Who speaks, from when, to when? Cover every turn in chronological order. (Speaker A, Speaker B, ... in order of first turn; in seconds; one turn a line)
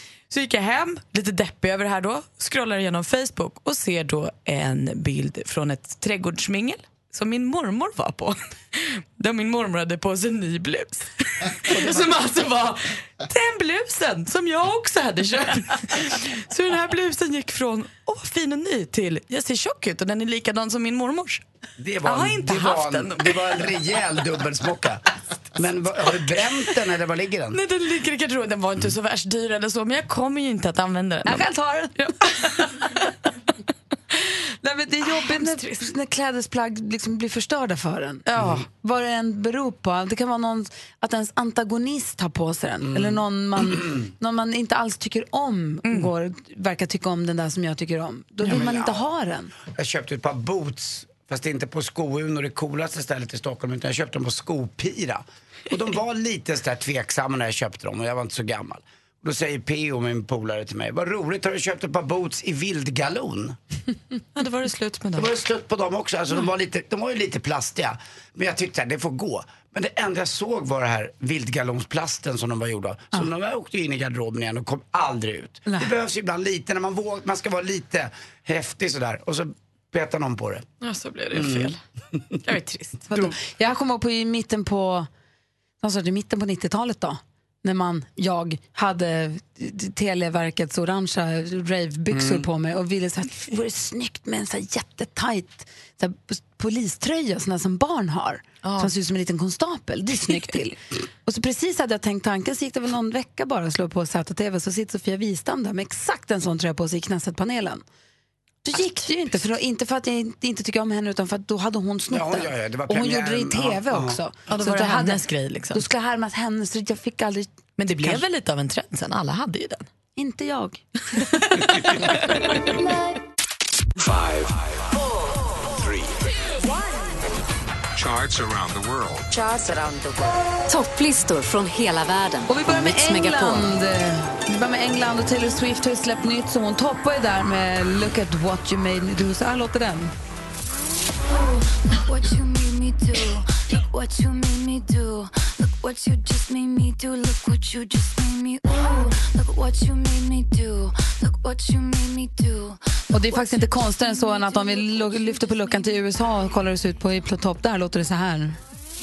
Speaker A: 0.3-21.4
Speaker B: 21.8-27.6
Speaker A: 22.0-23.3
Speaker A: 27.5-31.5
Speaker C: 31.2-32.8
Speaker A: 32.0-32.9
Speaker C: 34.6-49.5
Speaker A: 35.1-35.9
Speaker A: 38.3-38.6
Speaker B: 38.4-38.6
Speaker B: 42.9-43.2
Speaker B: 48.4-49.0
Speaker B: 49.7-63.6
Speaker A: 64.4-65.3
Speaker B: 65.2-80.7
Speaker C: 75.7-75.9
Speaker A: 80.8-81.8
Speaker B: 81.3-81.8
Speaker A: 82.4-83.1
Speaker C: 83.1-85.1
Speaker C: 85.8-107.8
Speaker B: 92.1-92.5
Speaker A: 98.6-98.9
Speaker C: 108.7-118.2
Speaker B: 112.1-114.2
Speaker A: 114.5-115.9
Speaker A: 117.8-119.9
Speaker C: 120.2-120.8
Speaker A: 121.5-122.0
Speaker D: 124.0-124.8
Speaker D: 125.8-126.2
Speaker D: 128.0-129.3
Speaker E: 129.3-133.7
Speaker C: 132.5-140.1
Speaker F: 141.3-156.6
Speaker C: 153.1-158.6